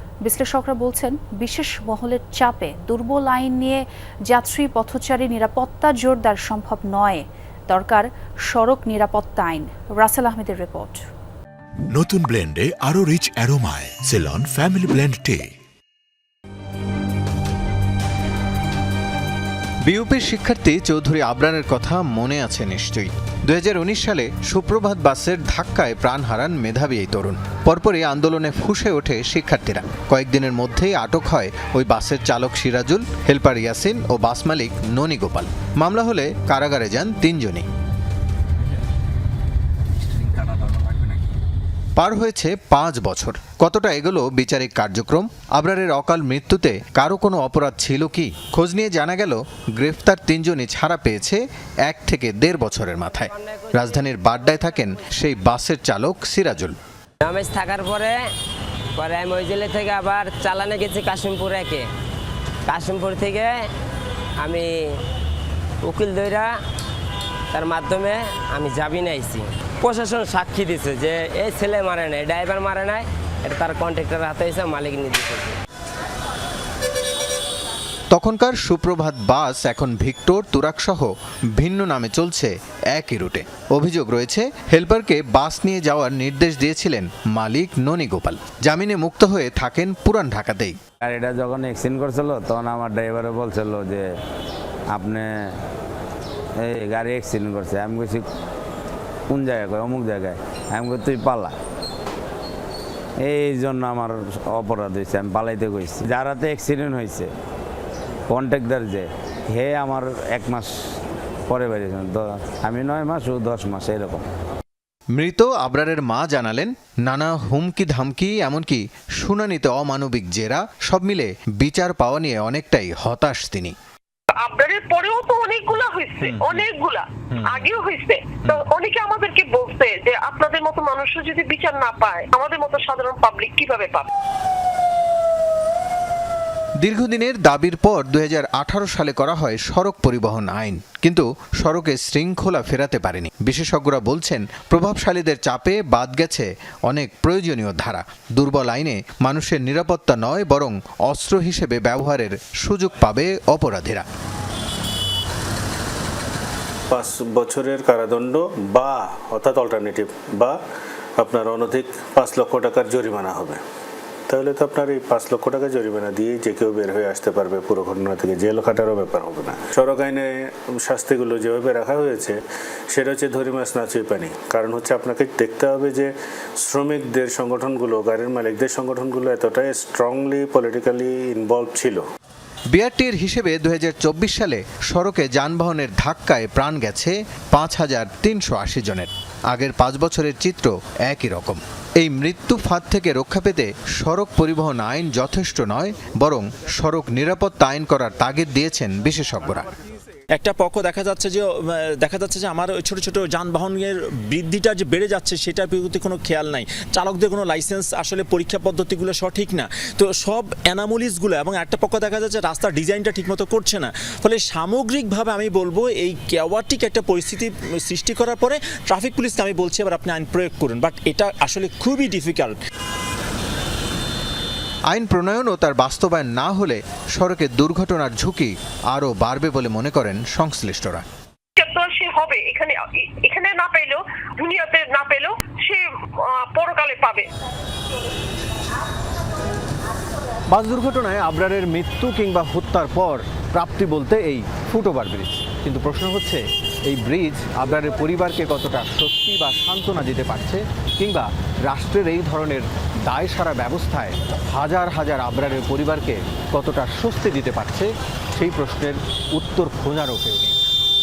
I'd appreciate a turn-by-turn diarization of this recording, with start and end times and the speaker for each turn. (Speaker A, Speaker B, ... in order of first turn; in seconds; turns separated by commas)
Speaker A: 0.2-11.0, Speaker B: 11.9-15.5, Speaker C: 19.9-37.7, Speaker C: 42.0-56.8, Speaker D: 57.3-58.1, Speaker D: 59.0-61.8, Speaker D: 62.7-63.5, Speaker D: 64.4-64.7, Speaker D: 65.9-66.5, Speaker D: 67.5-75.5, Speaker C: 78.1-90.8, Speaker E: 91.0-94.1, Speaker E: 94.9-95.5, Speaker E: 96.6-98.2, Speaker E: 99.3-101.5, Speaker E: 103.2-107.3, Speaker E: 108.3-110.7, Speaker E: 111.5-114.2, Speaker C: 115.2-123.7, Speaker F: 124.4-134.1, Speaker G: 126.2-126.6, Speaker C: 136.8-154.1, Speaker H: 156.9-160.6, Speaker H: 161.2-163.6, Speaker H: 164.3-182.0, Speaker C: 182.7-199.7, Speaker G: 200.3-222.6, Speaker C: 224.9-231.1, Speaker F: 231.6-237.3, Speaker I: 240.5-260.6